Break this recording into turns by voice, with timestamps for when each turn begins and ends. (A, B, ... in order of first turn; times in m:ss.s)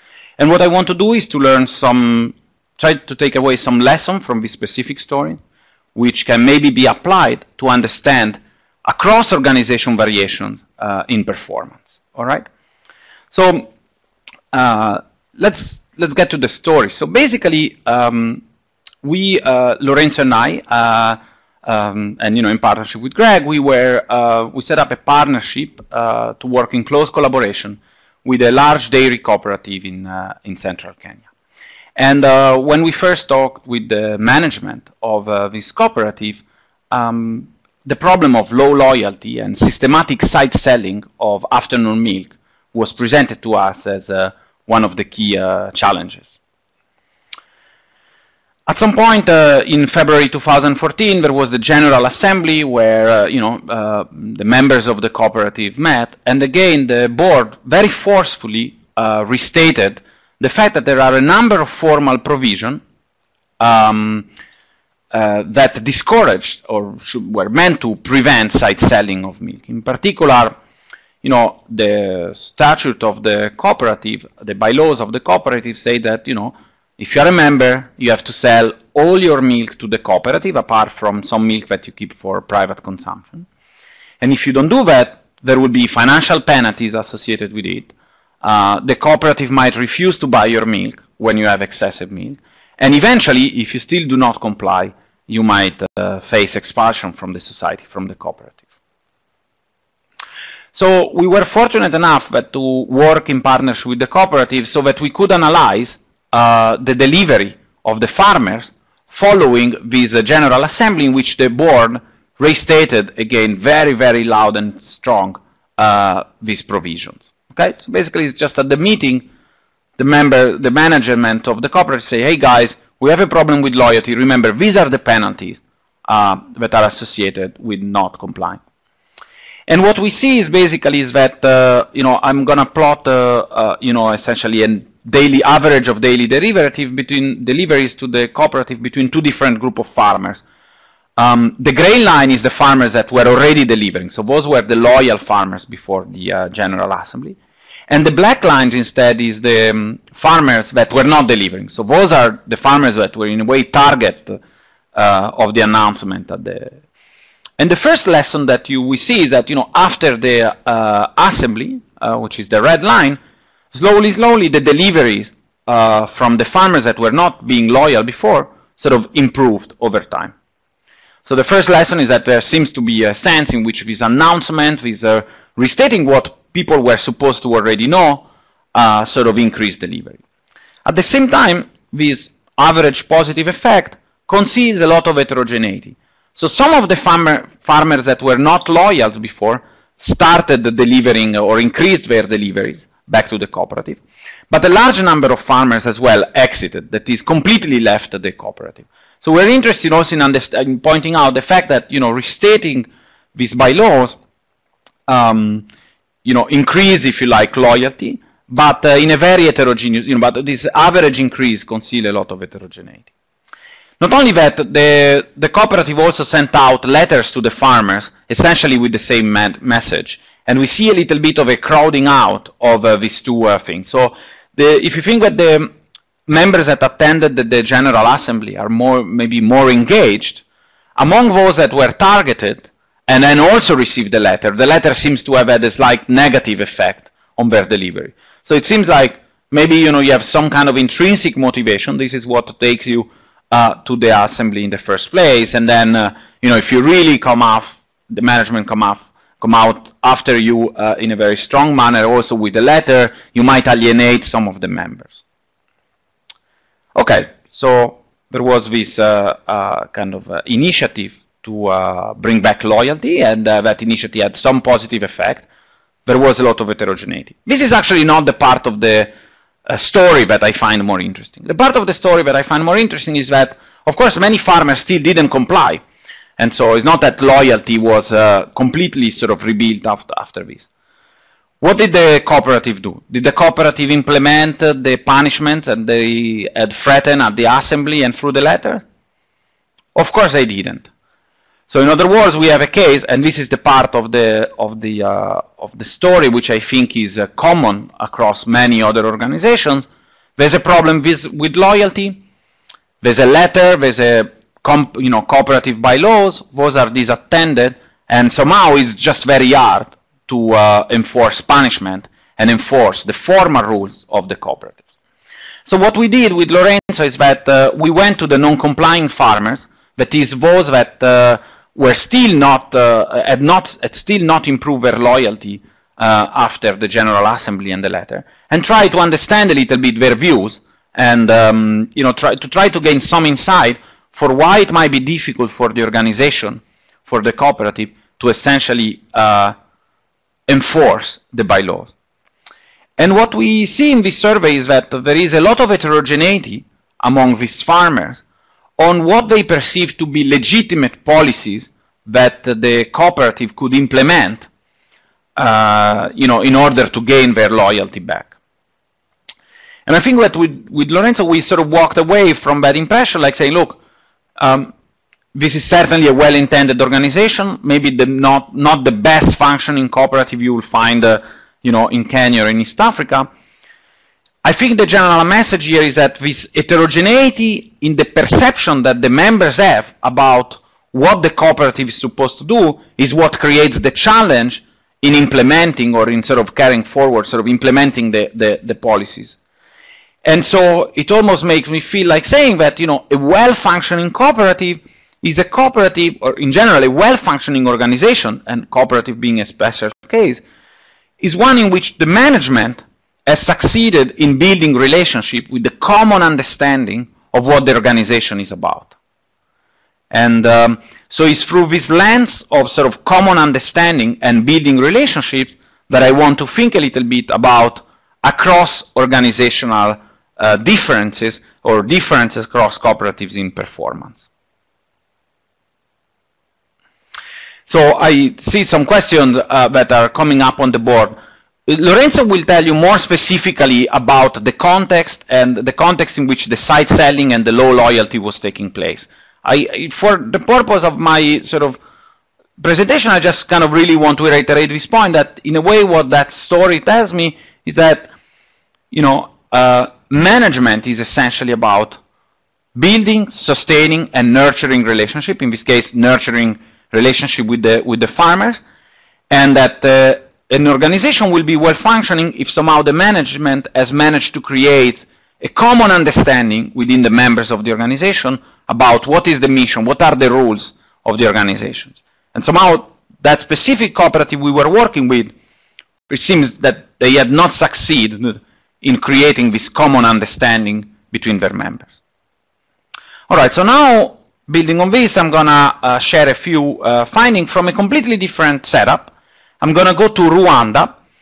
0:00.4-0:05.4 A
0:05.9-0:12.5 A
0:13.3-0:13.7 A
0:14.5-0:18.4 A
0:19.0-0:31.2 A
0:32.0-0:46.4 A
0:48.7-1:02.8 A
1:03.6-1:04.3 A
1:05.1-1:10.6 A
1:11.2-1:23.5 A
1:24.2-1:38.6 A
1:40.7-1:59.3 A
2:00.0-2:08.6 A
2:09.7-2:20.4 A
2:21.2-2:27.4 A
2:27.9-2:34.4 A
2:34.9-2:36.8 A
2:37.6-2:43.2 A
2:43.7-2:50.3 A
2:51.2-3:00.2 A
3:00.8-3:24.2 A
3:25.1-3:25.6 A
3:26.2-3:33.0 A
3:34.0-3:45.7 A
3:46.3-3:50.4 A
3:51.0-4:15.2 A
4:16.9-4:25.4 A
4:26.0-4:29.1 A
4:29.6-4:35.8 A
4:36.4-4:40.7 A
4:41.6-4:48.8 A
4:49.9-4:50.9 A
4:51.7-4:59.8 A
5:00.4-5:02.2 A
5:03.0-5:14.8 A
5:15.7-5:39.6 A
5:40.5-5:41.9 A
5:43.0-5:48.2 A
5:48.8-5:54.5 A
5:55.4-5:58.3 A
5:59.8-6:03.8 A
6:04.4-6:04.7 A
6:05.3-6:13.3 A
6:14.4-6:29.4 A
6:30.2-6:40.4 A
6:41.2-6:48.9 A
6:50.1-7:04.2 A
7:07.7-7:21.8 A
7:22.6-7:28.1 A
7:28.9-7:32.0 A
7:32.7-7:38.6 A
7:39.3-7:55.3 A
7:56.1-8:01.9 A
8:03.3-8:11.0 A